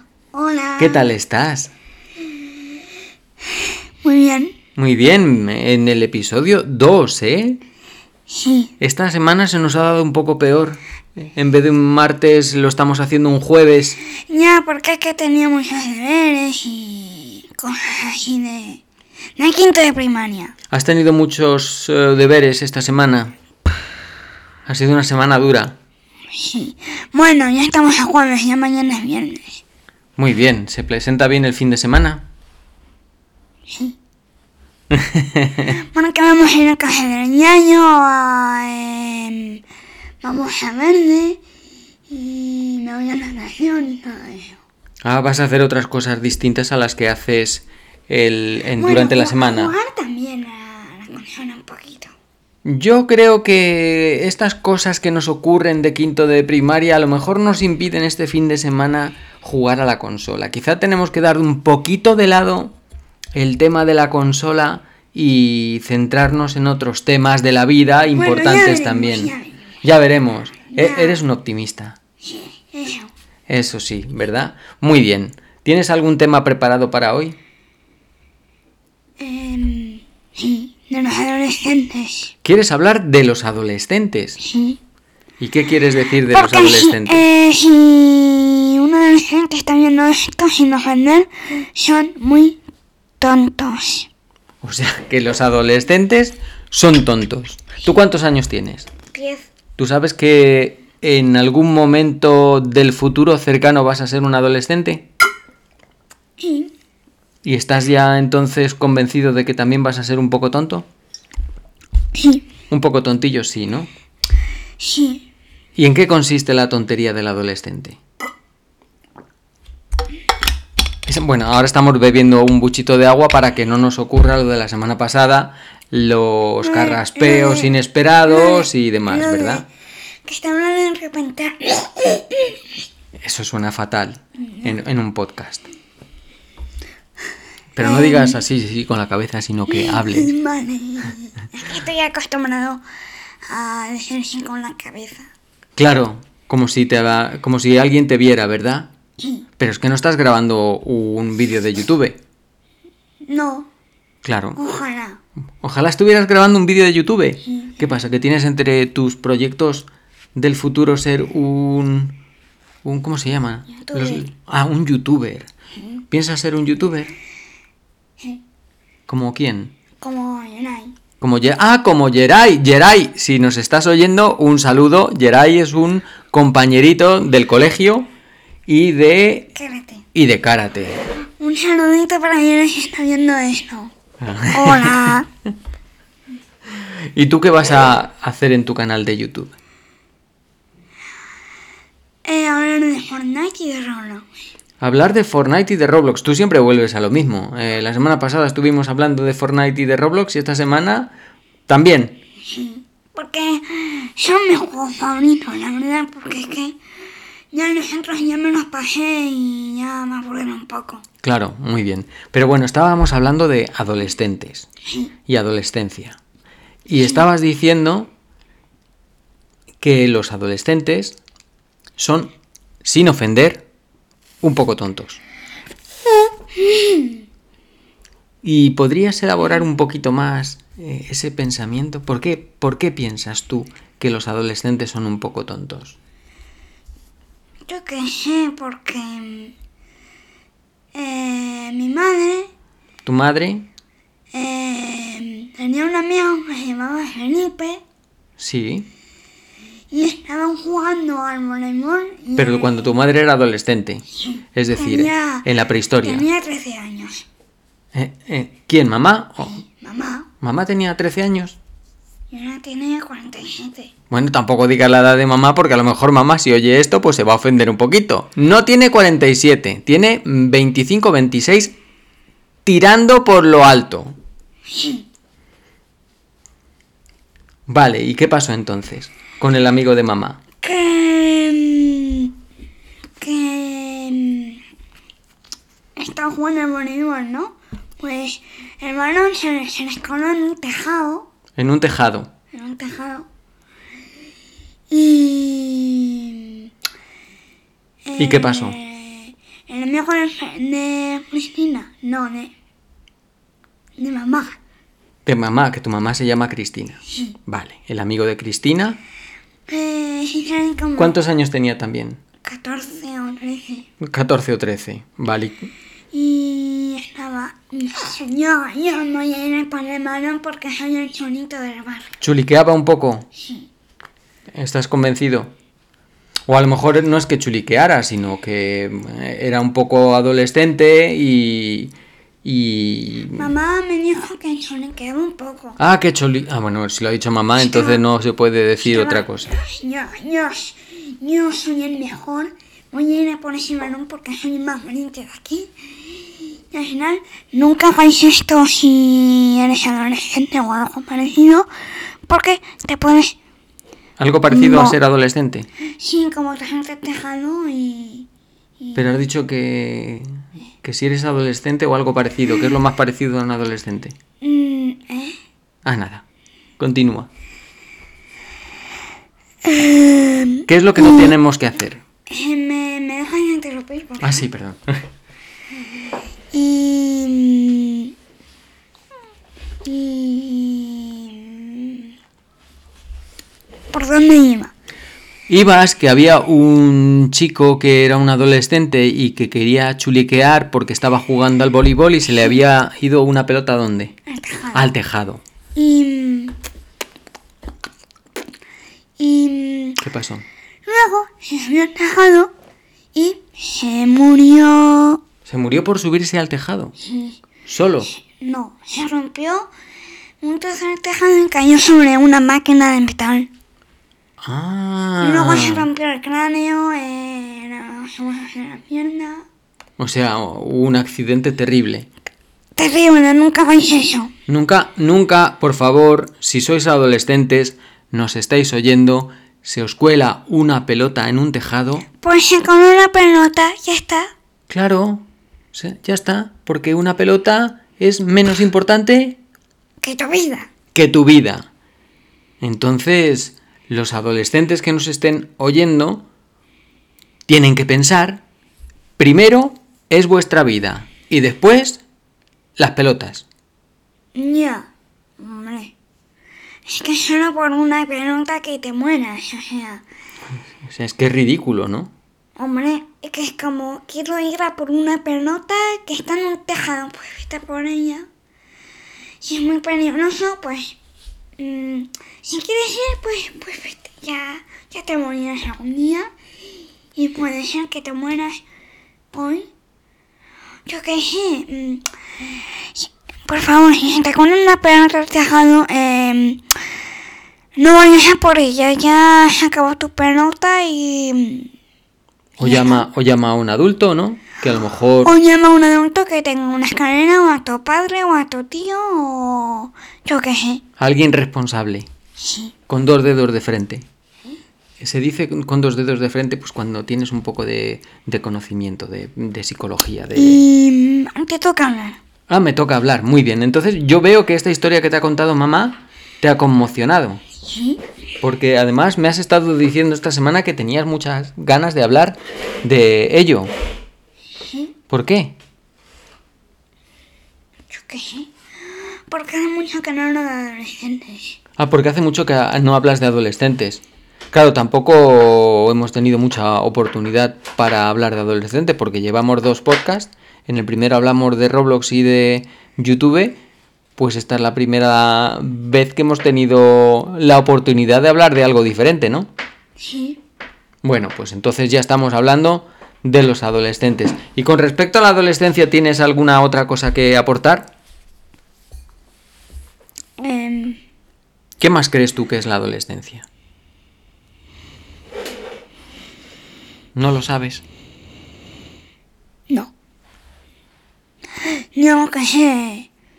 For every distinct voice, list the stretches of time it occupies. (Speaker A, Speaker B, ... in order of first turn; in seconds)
Speaker A: 0.3-1.1, 4.0-4.5, 8.3-8.7, 14.1-18.8, 19.4-20.5, 26.3-29.6, 35.7-39.6, 40.2-41.4, 42.1-44.6, 48.7-52.1, 68.1-69.6, 70.7-71.2, 72.2-73.1, 79.2-82.3, 84.4-84.8, 86.3-92.6, 93.2-94.1, 99.1-99.5, 106.4-106.7, 112.2-112.4, 114.8-115.3, 126.6-129.7, 130.2-132.6, 137.8-138.4, 139.7-142.8, 143.5-145.3, 153.3-153.7, 154.6-155.2, 163.8-164.3, 170.0-170.9, 179.5-180.0, 181.4-183.9, 184.5-185.3, 192.2-194.2, 202.5-206.8, 207.5-211.0, 226.6-227.1, 237.7-239.5, 240.9-242.5, 244.3-247.8, 249.9-252.9, 254.7-255.5, 256.0-257.2, 259.6-260.3, 262.3-263.9, 274.7-275.0, 280.6-282.3, 283.2-284.6, 286.0-291.3, 292.5-293.3, 294.9-296.7, 298.1-302.5, 304.0-304.6, 309.7-311.2, 312.4-313.9, 316.1-322.1, 333.4-335.8, 337.6-338.0, 338.8-351.7, 352.3-353.4, 354.5-355.0, 356.0-358.3, 364.4-365.4, 369.6-371.3, 372.3-374.4, 376.5-378.1, 379.9-382.1, 383.9-384.7, 394.3-394.9, 395.8-396.6, 399.2-400.0, 400.9-402.5, 403.1-405.2, 407.1-407.4, 408.1-409.7, 410.4-413.5, 415.2-419.5, 422.8-424.3, 432.2-434.3, 440.0-440.7, 454.4-455.9, 456.9-460.0, 462.6-468.3, 469.4-471.0, 471.6-476.3, 477.1-478.6, 479.3-479.7, 480.9-482.1, 483.0-486.7, 487.8-491.7, 492.6-493.1, 495.2-500.8, 502.4-502.7, 510.4-512.2, 517.7-518.0, 524.6-524.9, 527.9-531.6, 550.0-550.4, 560.4-561.0, 571.6-573.1
Speaker B: 0.8-1.7, 4.8-7.6, 8.8-14.0, 20.7-23.4, 24.6-25.8, 30.2-32.3, 34.9-35.7, 45.0-49.7, 52.6-62.8, 63.3-72.0, 73.5-77.4, 82.4-84.4, 85.4-87.2, 94.6-98.9, 99.8-105.1, 107.4-110.9, 112.7-113.9, 115.8-118.0, 121.0-129.6, 133.2-135.7, 137.8-140.3, 145.8-148.9, 149.6-152.2, 154.2-154.6, 155.6-162.2, 162.8-165.5, 166.1-167.1, 169.1-169.7, 171.2-178.1, 178.7-179.5, 180.1-181.0, 184.2-185.2, 186.8-189.5, 194.8-201.1, 201.7-202.2, 211.2-214.7, 215.3-216.2, 216.9-218.1, 219.8-221.2, 222.0-222.3, 222.8-223.7, 224.4-225.2, 228.4-236.0, 243.0-243.7, 248.4-248.9, 252.4-256.3, 257.9-259.6, 260.4-261.6, 264.1-271.8, 272.6-274.2, 277.7-280.4, 291.6-292.3, 298.2-298.8, 305.2-309.0, 311.0-312.2, 314.0-315.7, 322.2-323.3, 324.6-325.5, 326.5-333.5, 335.8-339.5, 354.2-355.7, 358.9-360.3, 360.8-364.2, 365.9-366.2, 366.8-367.3, 370.7-372.0, 374.2-375.1, 385.5-394.1, 394.7-395.4, 400.0-400.4, 405.4-406.9, 407.7-408.1, 414.4-415.9, 420.0-422.1, 424.5-432.1, 434.7-439.4, 440.9-441.7, 442.6-446.2, 447.5-448.4, 449.2-452.0, 452.8-453.5, 460.8-462.1, 492.6-495.4, 501.0-502.1, 502.9-504.1, 505.0-510.6, 512.5-517.4, 518.4-523.7, 525.1-525.6, 531.8-543.6, 544.2-549.5, 551.0-557.9, 561.8-563.5, 567.1-567.8